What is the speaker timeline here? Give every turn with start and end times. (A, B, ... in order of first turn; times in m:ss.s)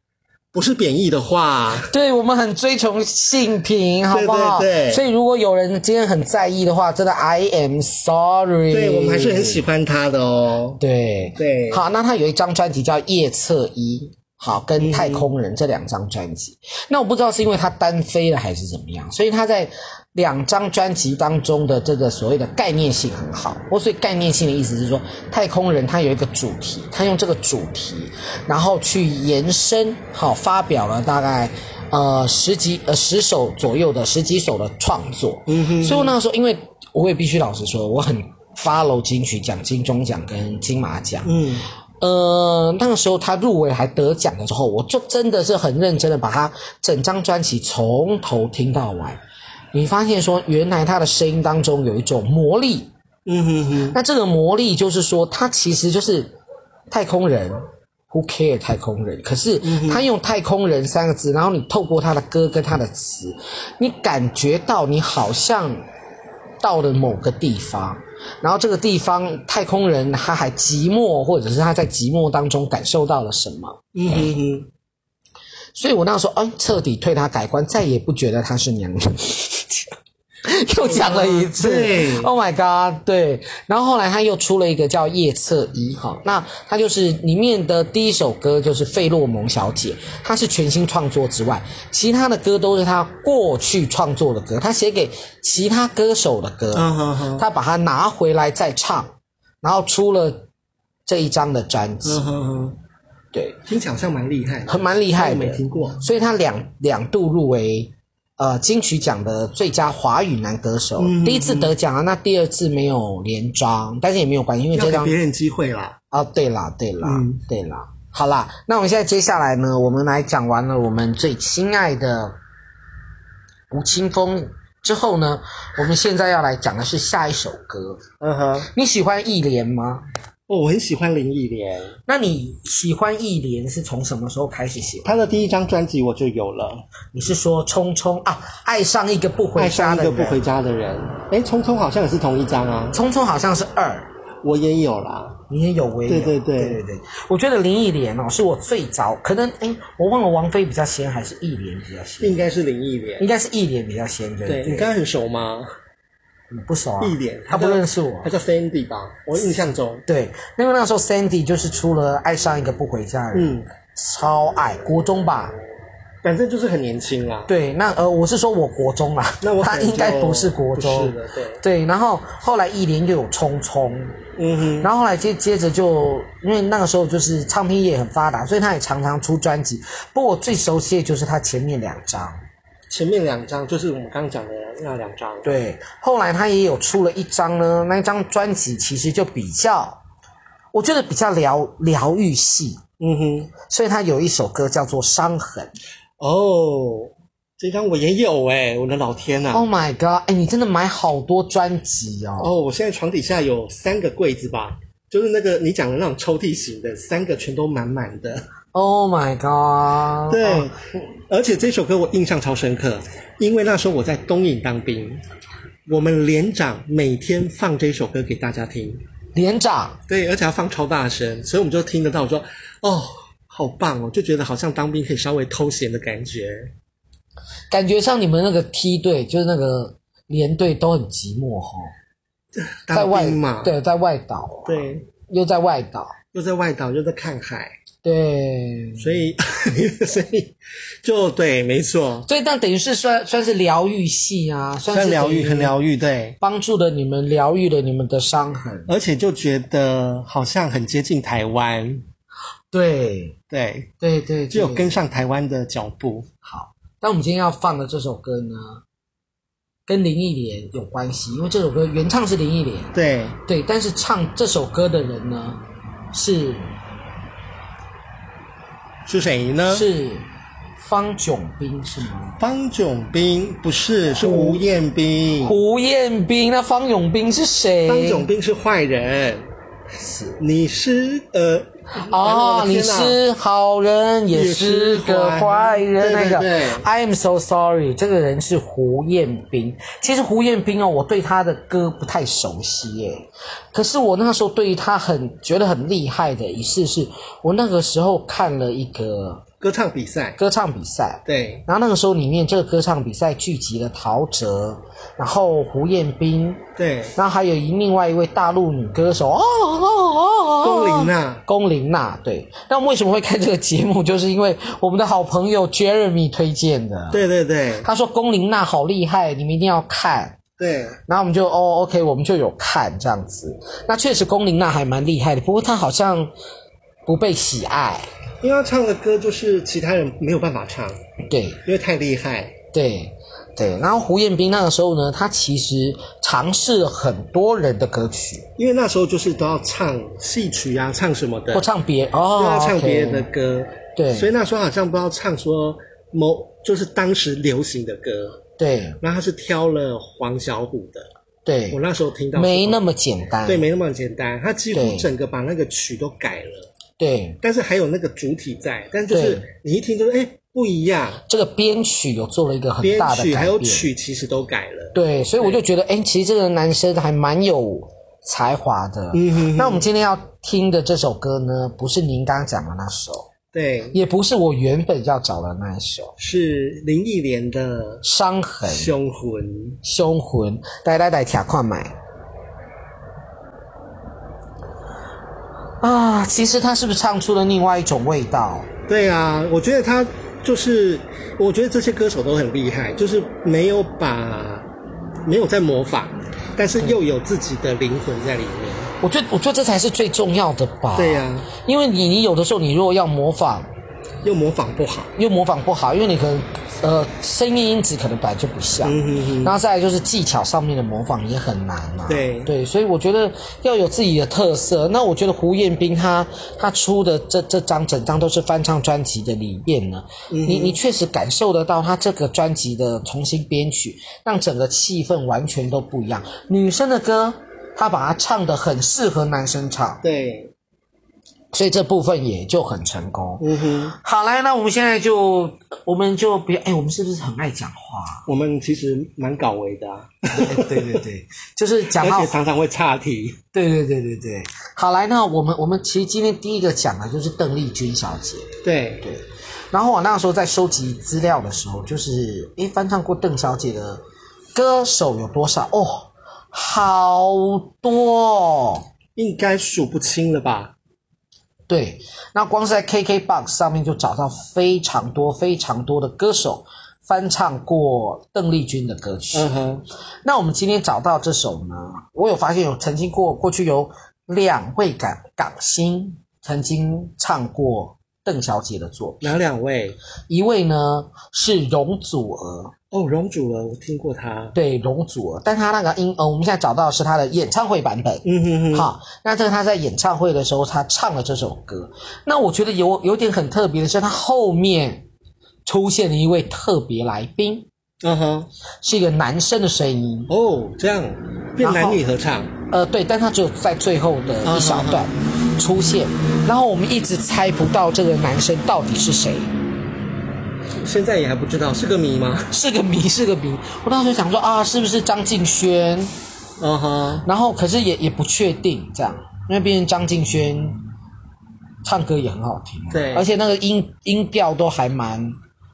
0:00.5-0:01.9 A
0:01.8-0:09.6 B
0:04.1-0:05.0 A
0:08.7-0:10.8 A
0:10.8-0:41.3 B
0:11.4-0:11.8 A
0:14.8-0:15.3 A
0:35.5-0:36.1 A
0:41.2-0:41.6 A
0:42.0-0:49.2 B
0:49.7-0:52.9 B
0:53.2-0:54.0 A
0:53.9-0:56.3 B
0:56.9-1:05.8 B
0:59.6-1:00.0 A
1:06.6-1:14.2 B
1:13.9-1:14.7 A
1:15.7-1:19.9 B
1:20.4-1:40.4 B
1:20.8-1:22.3 A
1:36.7-1:37.4 A
1:41.0-1:42.2 B
1:42.0-1:42.8 A
1:43.6-1:46.0 A
1:44.7-1:55.1 B
1:51.0-1:51.7 A
1:54.7-1:56.0 A
1:56.1-2:02.4 B
1:57.0-1:57.4 A
2:03.7-2:08.0 B
2:08.2-2:08.7 A
2:08.7-2:10.0 B
2:10.5-2:12.0 A
2:12.1-2:15.2 B
2:15.0-2:16.8 A
2:17.1-2:20.4 B
2:19.6-2:23.0 A
2:22.9-2:24.1 B
2:24.4-2:25.4 A
2:25.5-2:32.4 B
2:26.1-2:26.8 A
2:32.2-2:33.3 A
2:33.2-2:34.9 B
2:34.4-2:35.7 A
2:36.5-2:38.3 B
2:37.0-2:40.0 A
2:40.1-2:45.5 B
2:43.3-2:43.7 A
2:46.2-2:47.5 A
2:47.5-2:54.2 B
2:49.4-2:51.6 A
2:54.4-2:54.9 A
2:54.8-3:02.4 B
3:02.9-3:05.5 A
3:05.4-3:10.0 B
3:10.7-3:12.8 B
3:13.0-3:13.5 A
3:13.7-3:15.7 B
3:16.2-3:19.6 A
3:19.5-3:22.5 B
3:22.4-3:28.4 A
3:28.7-3:30.7 B
3:30.3-3:30.7 A
3:31.3-3:35.2 A
3:35.8-3:39.0 A
3:39.3-3:40.0 B
3:40.1-3:46.7 A
3:47.7-3:51.9 B
3:52.6-3:53.7 A
3:52.9-3:56.2 B
3:54.7-3:55.0 A
3:56.3-3:57.7 A
3:58.0-3:59.2 B
3:59.0-4:02.2 A
4:02.2-4:05.7 B
4:04.9-4:06.4 A
4:06.4-4:08.9 B
4:08.9-4:12.1 A
4:12.7-4:13.4 B
4:13.5-4:13.9 A
4:14.0-4:15.0 B
4:14.5-4:16.3 A
4:16.4-4:18.8 B
4:19.9-4:22.9 B
4:22.9-4:23.4 A
4:23.4-4:25.6 B
4:26.1-4:26.7 B
4:29.0-4:29.9 A
4:29.7-4:30.2 B
4:30.8-4:32.4 B
4:32.4-4:35.6 A
4:34.1-4:34.6 B
4:35.4-4:38.3 B
4:37.9-4:39.5 A
4:40.0-4:40.4 B
4:40.4-4:43.2 A
4:42.0-4:59.4 B
4:44.3-4:46.8 A
4:59.6-5:00.4 A
5:00.4-5:06.6 B
5:01.2-5:01.6 A
5:06.8-5:07.1 A
5:07.2-5:17.2 B
5:10.6-5:11.4 A
5:17.1-5:17.9 A
5:17.8-5:20.4 B
5:20.6-5:21.0 A
5:21.1-5:26.3 B
5:27.0-5:28.1 B
5:28.4-5:31.0 A
5:31.3-5:31.6 B
5:31.6-5:32.6 A
5:32.7-5:38.5 B
5:38.6-5:41.7 A
5:41.5-5:43.3 B
5:42.4-5:48.4 A
5:44.0-5:44.3 B
5:48.6-5:49.0 B
5:49.0-5:51.1 A
5:51.4-5:51.8 B
5:51.7-5:52.8 A
5:52.3-5:53.7 B
5:53.4-5:56.7 A
5:54.7-5:55.1 B
5:57.0-5:57.4 B
5:57.4-6:01.2 A
5:59.1-5:59.4 B
6:01.3-6:03.9 B
6:02.8-6:05.6 A
6:04.9-6:13.3 B
6:09.1-6:09.8 A
6:13.5-6:14.0 A
6:13.9-6:16.1 B
6:16.2-6:18.0 A
6:18.0-6:18.9 B
6:18.6-6:19.8 A
6:19.8-6:21.9 B
6:25.8-6:28.7 B
6:28.9-6:34.7 A
6:35.2-6:38.9 A
6:39.0-6:43.7 B
6:41.0-6:41.5 A
6:44.2-6:45.1 A
6:45.2-7:10.0 B
6:48.8-6:49.5 A
6:52.1-6:52.5 A
7:00.3-7:00.8 A
7:10.0-7:10.5 A
7:11.5-7:18.2 B
7:13.4-7:13.9 A
7:18.3-7:21.0 A
7:20.3-7:22.3 B
7:21.9-7:23.4 A
7:23.5-7:34.0 B
7:28.6-7:29.0 A
7:34.5-7:38.8 B
7:39.2-7:40.7 A
7:41.7-7:49.5 B
7:49.3-7:49.8 A
7:50.2-7:59.4 B
7:59.2-8:00.0 A
8:00.3-8:02.7 B
8:02.9-8:04.5 A
8:04.5-8:15.0 B
8:08.2-8:08.9 A
8:15.6-8:17.6 B
8:18.0-8:18.5 A
8:18.8-8:20.3 B
8:20.3-8:22.5 A
8:21.6-8:22.0 B
8:22.7-8:29.5 B
8:24.4-8:25.1 A
8:30.8-8:32.5 A
8:32.5-8:36.1 B
8:36.6-8:37.2 A
8:37.2-8:40.8 B
8:41.8-8:45.4 B
8:42.9-8:43.3 A